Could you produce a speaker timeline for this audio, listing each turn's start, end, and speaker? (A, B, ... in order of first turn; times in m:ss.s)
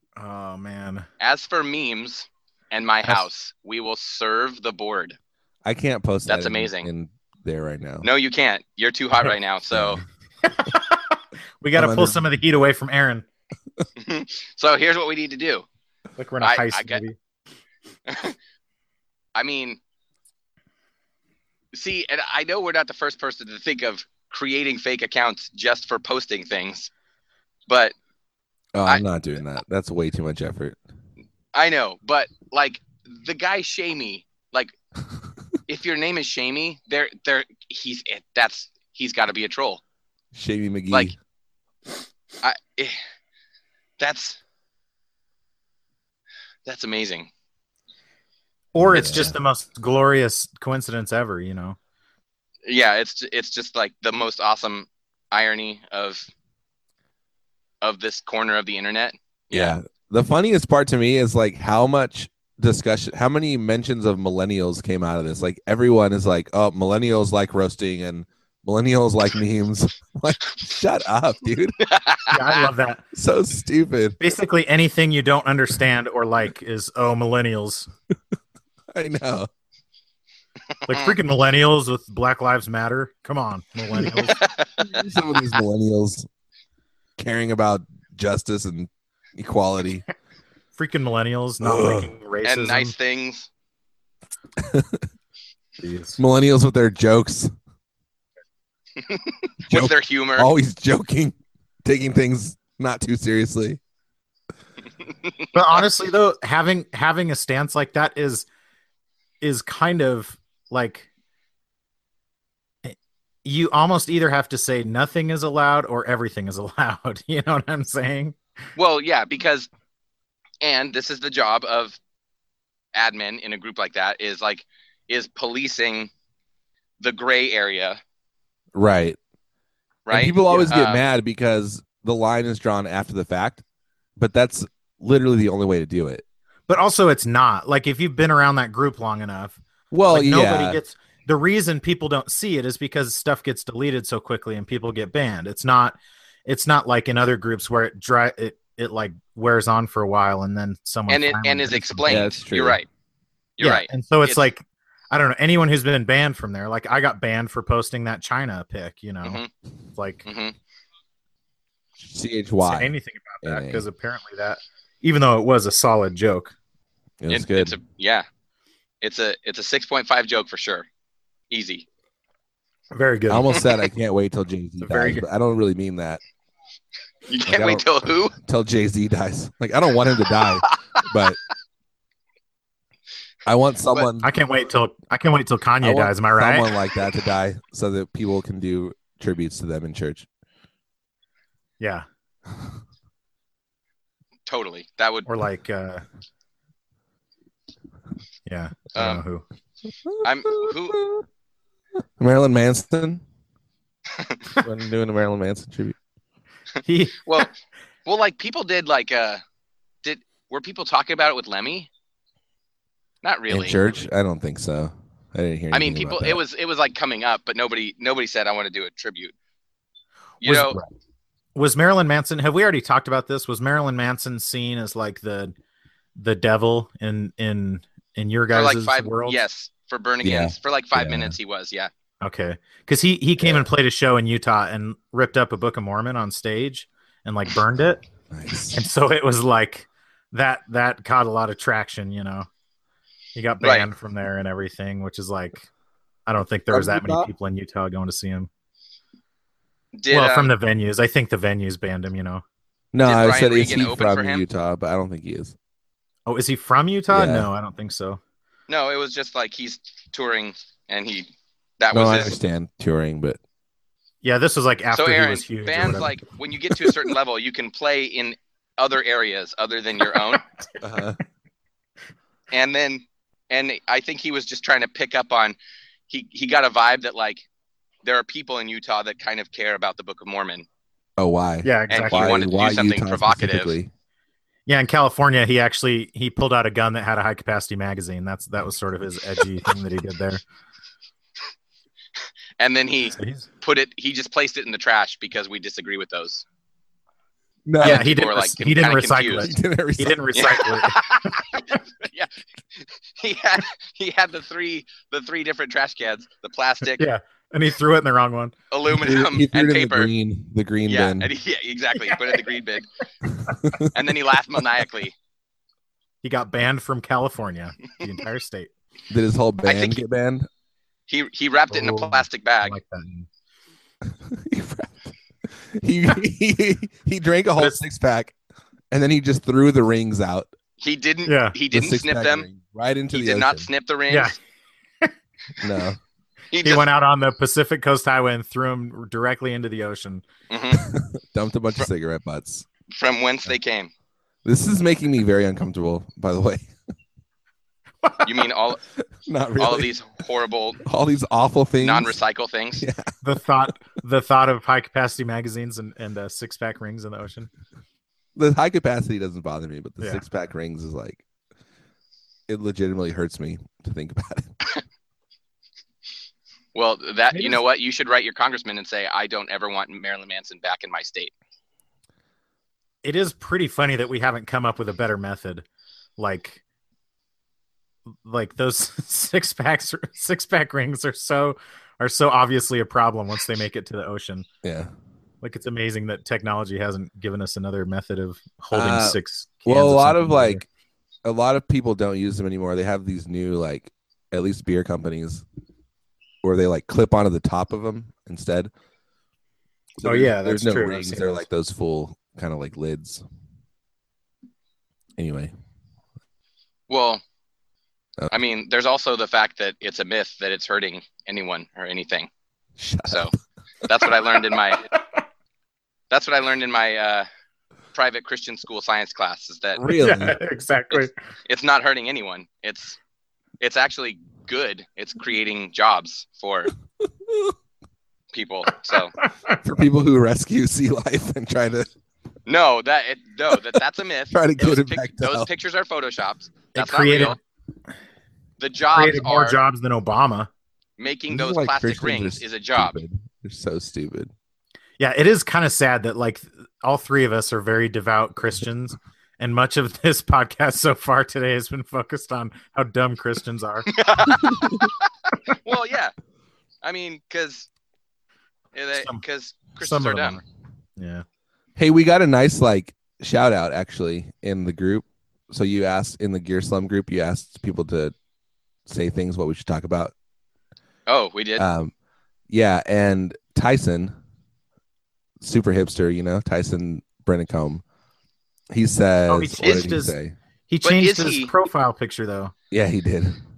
0:00.2-0:01.0 A
0:01.2-0:05.2 B
0:05.6-0:08.1 C
0:06.3-0:06.9 B
0:08.0-0:10.0 B
0:09.7-0:10.0 C
0:10.4-0:13.2 A
0:11.8-0:12.2 C
0:14.0-0:15.6 B
0:16.2-0:17.2 A
0:16.4-0:17.0 B
0:18.1-0:18.4 B
0:19.3-0:19.8 B
0:21.7-0:26.9 B
0:27.7-0:27.9 B
0:28.7-0:30.8 C
0:31.5-0:34.7 B
0:35.7-0:39.8 B
0:40.3-0:41.2 C
0:42.4-0:43.0 B
0:44.0-0:44.4 B
0:46.6-0:47.3 B
0:48.7-0:51.8 A
0:48.8-0:49.4 C
0:52.6-0:56.3 B
0:57.8-0:59.8 B
0:59.5-1:11.8 C
1:11.8-1:12.6 B
1:12.3-1:13.0 A
1:13.1-1:14.2 C
1:14.2-1:17.9 A
1:18.9-1:19.5 C
1:20.9-1:24.4 A
1:20.9-1:21.1 B
1:24.2-1:25.0 B
1:24.8-1:26.3 C
1:27.2-1:30.0 C
1:30.8-1:32.9 A
1:31.6-1:32.1 C
1:32.4-1:33.5 B
1:34.6-1:35.0 C
1:35.8-1:36.2 A
1:36.2-1:37.5 C
1:39.0-1:40.5 B
1:39.7-1:43.8 C
1:45.5-1:48.5 A
1:49.4-1:51.1 A
1:52.8-1:58.4 A
1:58.8-1:59.7 B
2:00.6-2:02.0 B
2:02.9-2:06.1 B
2:07.0-2:08.0 B
2:08.7-2:09.2 C
2:10.0-2:11.0 B
2:10.1-2:13.6 C
2:14.2-2:16.2 C
2:16.7-2:32.2 A
2:19.9-2:20.8 C
2:31.1-2:32.9 B
2:32.1-2:32.8 C
2:33.6-2:34.4 B
2:33.6-2:39.4 A
2:39.2-2:39.5 B
2:40.0-2:40.2 A
2:40.2-2:40.5 B
2:42.0-2:43.8 C
2:42.6-2:46.5 A
2:47.2-2:47.8 C
2:47.3-2:48.2 B
2:49.0-2:50.8 B
2:51.5-2:51.8 B
2:52.9-2:53.6 A
2:53.3-2:56.2 C
2:54.8-2:55.2 A
2:57.3-2:58.3 B
2:57.5-3:01.4 C
3:00.4-3:01.0 B
3:03.4-3:04.3 C
3:04.2-3:06.7 A
3:05.8-3:10.2 C
3:11.8-3:12.0 A
3:14.5-3:15.3 B
3:15.2-3:16.0 A
3:18.4-3:19.4 A
3:19.0-3:19.2 B
3:20.0-3:21.2 C
3:20.2-3:21.0 B
3:22.2-3:23.2 C
3:24.1-3:24.4 B
3:24.6-3:26.0 C
3:26.8-3:27.2 A
3:27.2-3:27.5 B
3:28.0-3:29.4 B
3:30.0-3:31.9 B
3:33.2-3:33.8 B
3:33.5-3:36.4 C
3:35.7-3:39.3 B
3:40.4-3:40.8 B
3:40.4-3:40.8 A
3:41.6-3:45.5 A
3:46.2-3:49.4 A
3:48.5-3:51.9 B
3:50.2-3:51.3 C
3:52.2-3:58.0 A
3:53.4-3:53.6 C
3:58.3-3:58.8 C
3:58.7-4:02.5 A
4:03.3-4:05.7 A
4:03.6-4:03.9 B
4:06.3-4:08.5 A
4:06.7-4:07.3 C
4:10.0-4:10.5 B
4:10.1-4:12.4 A
4:12.9-4:15.5 C
4:13.0-4:14.4 B
4:16.3-4:18.2 A
4:17.1-4:17.5 C
4:18.7-4:21.3 B
4:21.8-4:22.3 B
4:21.9-4:23.4 C
4:24.2-4:26.2 A
4:24.9-4:30.4 B
4:30.8-4:31.2 C
4:32.5-4:35.6 B
4:36.1-4:37.4 B
4:38.0-4:40.6 B
4:41.2-4:43.9 C
4:41.6-4:42.4 A
4:41.9-4:43.7 B
4:44.7-4:50.4 A
4:52.6-4:56.4 B
4:53.1-4:53.4 A
4:57.6-4:58.1 C
4:57.8-4:59.5 B
4:57.8-5:01.8 A
4:59.4-5:00.2 C
5:00.3-5:07.0 B
5:07.0-5:08.5 A
5:08.7-5:10.1 B
5:08.9-5:11.3 C
5:10.9-5:12.9 B
5:13.5-5:13.9 C
5:13.9-5:15.1 B
5:16.2-5:18.7 A
5:19.1-5:20.5 C
5:19.6-5:20.0 B
5:21.1-5:22.7 B
5:21.7-5:23.3 A
5:24.0-5:28.3 C
5:28.9-5:30.5 C
5:30.8-5:32.5 B
5:31.2-5:31.6 A
5:31.7-5:33.7 C
5:33.1-5:34.3 B
5:34.1-5:34.3 A
5:35.6-5:36.0 C
5:36.5-5:36.8 B
5:36.6-5:40.2 A
5:40.5-5:40.8 B
5:40.7-5:42.7 C
5:42.9-5:43.9 B
5:44.4-5:46.7 C
5:48.2-5:48.8 B
5:49.2-5:49.9 C
5:49.6-5:50.8 B
5:50.8-5:52.2 C
5:51.8-5:52.8 B
5:52.8-5:53.1 C
5:53.2-5:57.5 A
5:58.4-6:01.2 C
6:02.5-6:04.5 C
6:06.7-6:11.3 B
6:07.3-6:07.6 A
6:13.0-6:15.6 A
6:16.2-6:16.6 A
6:18.2-6:24.4 A
6:24.6-6:24.9 C
6:25.4-6:30.6 A
6:28.7-6:30.6 C
6:31.2-6:35.4 C
6:36.4-6:38.7 C
6:40.0-6:43.2 C
6:40.0-6:41.4 A
6:45.2-6:45.5 C
6:46.9-6:47.2 B
6:48.3-6:52.3 B
6:52.8-6:53.3 C
6:53.1-6:53.3 B
6:53.8-6:54.9 B
6:56.1-6:57.2 B
6:57.9-6:59.8 B
6:59.8-7:00.4 C
6:59.9-7:01.1 A
7:00.9-7:03.0 B
7:03.6-7:06.7 B
7:07.3-7:07.5 C
7:08.3-7:09.2 B
7:09.2-7:09.6 A
7:09.6-7:11.9 C
7:12.5-7:17.4 B
7:14.3-7:15.5 C
7:16.7-7:17.4 A
7:18.6-7:19.6 B
7:18.9-7:20.5 A
7:21.0-7:23.0 B
7:21.3-7:24.3 C
7:25.0-7:33.9 A
7:33.9-7:34.9 B
7:35.5-7:36.1 B
7:36.8-7:37.7 B
7:38.7-7:40.4 B
7:39.0-7:39.2 A
7:39.8-7:40.4 A
7:41.0-7:41.2 A
7:41.8-7:48.1 C
7:48.8-7:50.1 C
7:51.1-7:51.6 B
7:51.6-7:51.9 C
7:52.5-7:54.1 C
7:55.4-7:57.8 C
7:58.7-8:00.4 C
7:59.3-8:00.1 A
8:00.7-8:02.5 A
8:00.8-8:01.5 B
8:02.7-8:03.4 C